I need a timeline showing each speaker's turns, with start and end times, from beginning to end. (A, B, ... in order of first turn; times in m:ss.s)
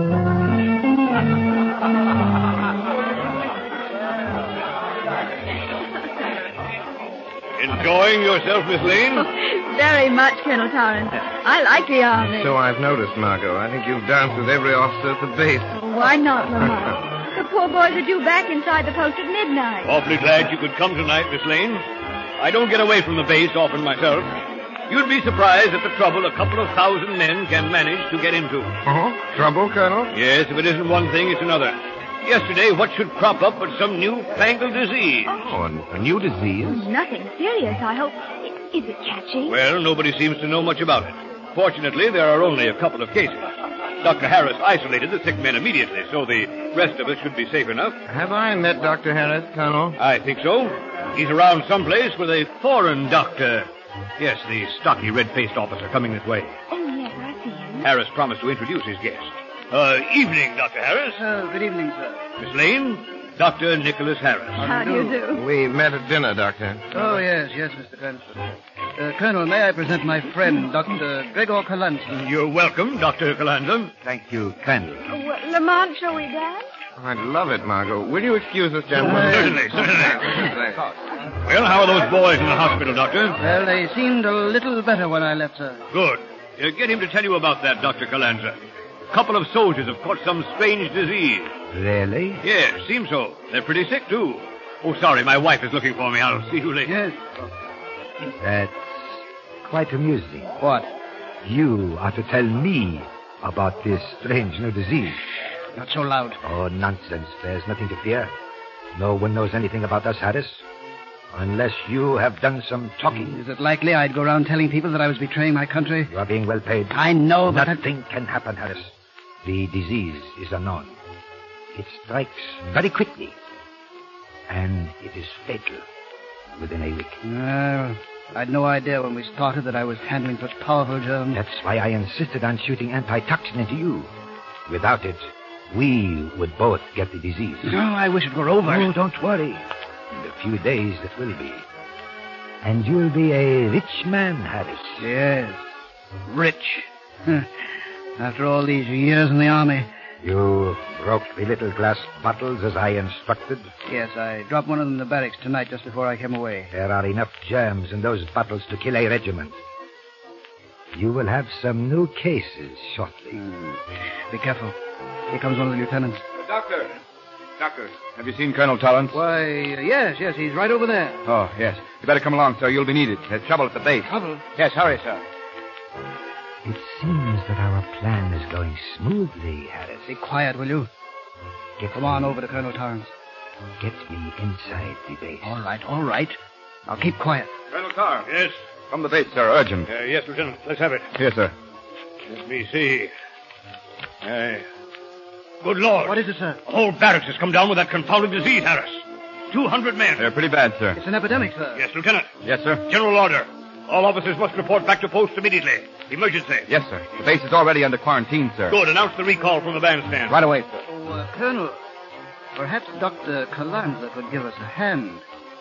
0:07.6-0:09.3 A
0:09.2-0:12.6 B
0:12.2-0:15.8 C
0:15.7-0:20.0 B
0:19.8-0:21.9 A
0:22.4-0:24.3 A
0:24.9-0:28.8 A
0:28.8-0:30.1 C
0:30.1-0:35.4 A
0:35.3-0:35.5 B
0:35.4-0:36.8 C
0:36.6-0:39.6 B
0:39.5-0:48.0 A
0:48.1-0:50.0 C
0:50.0-0:56.6 A
0:56.7-0:57.9 B
0:57.8-1:01.2 A
1:01.1-1:02.2 D
1:02.4-1:04.6 A
1:04.6-1:05.2 D
1:04.6-1:05.4 B
1:05.3-1:07.0 C
1:06.9-1:12.2 D
1:12.1-1:13.9 A
1:14.0-1:15.0 E
1:15.1-1:16.7 B
1:17.0-1:20.8 C
1:19.0-1:20.5 A
1:19.0-1:20.4 D
1:21.4-1:23.4 A
1:23.4-1:25.8 D
1:25.9-1:28.6 A
1:29.1-1:31.5 A
1:31.7-1:32.4 E
1:32.4-1:36.9 A
1:36.8-1:37.4 D
1:38.4-1:40.6 E
1:41.4-1:45.2 E
1:45.8-1:46.4 D
1:46.4-1:48.3 E
1:48.9-1:50.6 E
1:51.3-1:53.4 E
1:53.3-1:56.1 D
1:56.1-1:58.9 E
1:56.9-1:57.8 D
1:59.4-2:01.0 E
2:01.7-2:03.4 E
2:04.5-2:05.8 E
2:06.6-2:07.2 E
2:07.2-2:11.4 D
2:11.3-2:14.1 E
2:14.7-2:17.8 E
2:17.6-2:18.9 D
2:18.6-2:21.6 E
2:22.6-2:25.1 E
2:25.0-2:25.6 D
2:26.2-2:29.9 D
2:30.2-2:33.7 E
2:33.9-2:36.7 D
2:36.7-2:39.6 E
2:40.9-2:43.4 E
2:43.3-2:44.8 D
2:45.3-2:46.2 D
2:46.4-2:46.9 F
2:47.6-2:49.2 F
2:49.1-2:51.2 D
2:51.3-2:55.2 F
2:54.0-2:54.4 D
2:56.6-3:00.1 E
3:00.1-3:00.9 D
3:01.8-3:02.4 E
3:01.9-3:03.1 D
3:03.8-3:05.6 E
3:05.4-3:07.5 D
3:07.7-3:08.3 F
3:08.2-3:08.6 A
3:08.9-3:09.9 F
3:09.9-3:11.1 A
3:11.2-3:11.5 F
3:12.3-3:13.1 A
3:14.2-3:14.7 A
3:15.6-3:20.3 A
3:16.0-3:16.6 D
3:20.2-3:21.0 F
3:21.0-3:21.8 D
3:21.8-3:22.3 A
3:22.4-3:22.8 F
3:22.9-3:26.7 A
3:26.7-3:28.8 F
3:28.7-3:30.4 A
3:30.3-3:30.8 F
3:30.9-3:31.8 D
3:32.6-3:35.2 D